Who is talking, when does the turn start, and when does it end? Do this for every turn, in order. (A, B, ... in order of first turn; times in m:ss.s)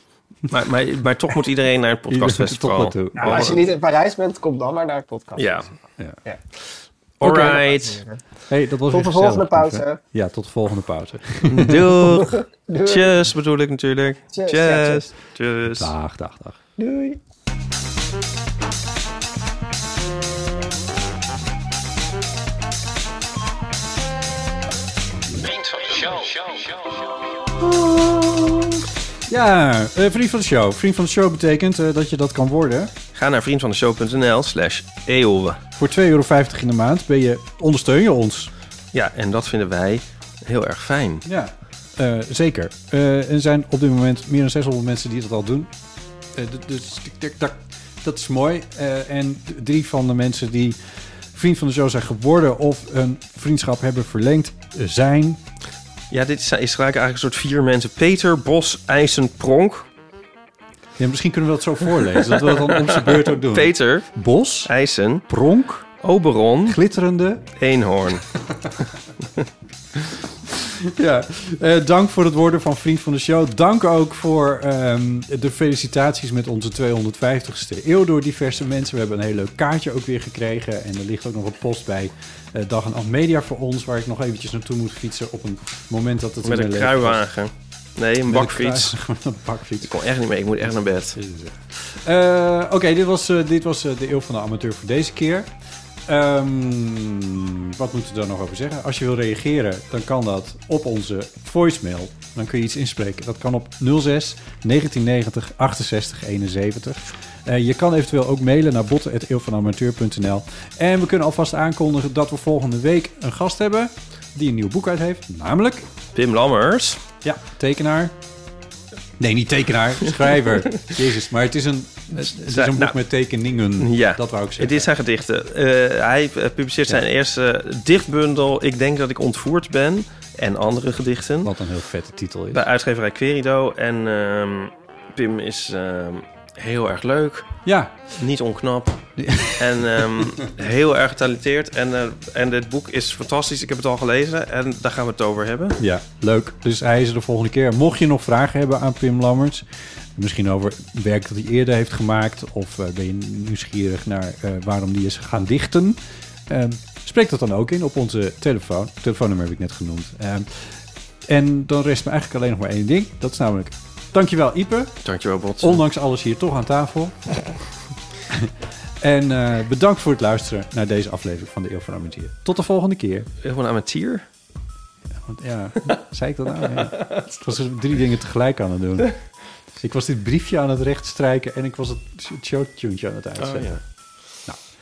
0:00.5-0:03.6 A
0:02.1-0:03.6 B
0:03.2-0:06.4 C
0:05.4-0:05.7 A
0:07.2-0:08.0 A
0:07.2-0:08.2 C
0:08.5-0:12.0 B
0:08.9-0:10.0 C
0:11.5-0:15.9 A
0:12.1-0:13.2 C
0:14.3-0:15.1 C
0:15.8-0:16.6 B
0:16.8-0:17.2 C
0:25.5-0:26.9 A
0:27.6-0:28.7 B
0:29.3-0:32.9 B
0:33.2-0:35.6 A
0:35.8-0:38.5 B
0:38.9-0:41.2 A
0:41.2-0:45.7 B
0:46.3-0:50.8 B
0:51.3-0:55.4 B
0:56.1-0:59.9 A
1:01.0-1:04.7 B
1:02.5-1:04.1 A
1:04.6-1:05.3 A
1:05.3-1:05.9 B
1:06.0-1:06.8 A
1:06.7-1:07.5 B
1:07.6-1:08.3 A
1:10.8-1:27.2 B
1:26.4-1:29.0 A
1:28.3-1:29.9 B
1:29.8-1:31.2 A
1:31.2-1:35.5 B
1:36.1-1:55.9 B
1:56.1-1:57.0 A
1:57.2-1:58.2 B
1:59.2-2:04.9 B
2:02.2-2:03.0 A
2:03.8-2:11.5 A
2:11.4-2:12.6 B
2:12.5-2:17.5 A
2:17.6-2:18.0 B
2:18.2-2:25.8 A
2:19.2-2:20.0 B
2:25.8-2:45.0 B
2:45.0-2:45.8 A
2:45.6-2:47.2 B
2:48.3-2:53.3 B
2:53.4-2:54.3 A
2:55.1-3:03.8 B
3:03.4-3:03.8 A
3:04.4-3:04.6 B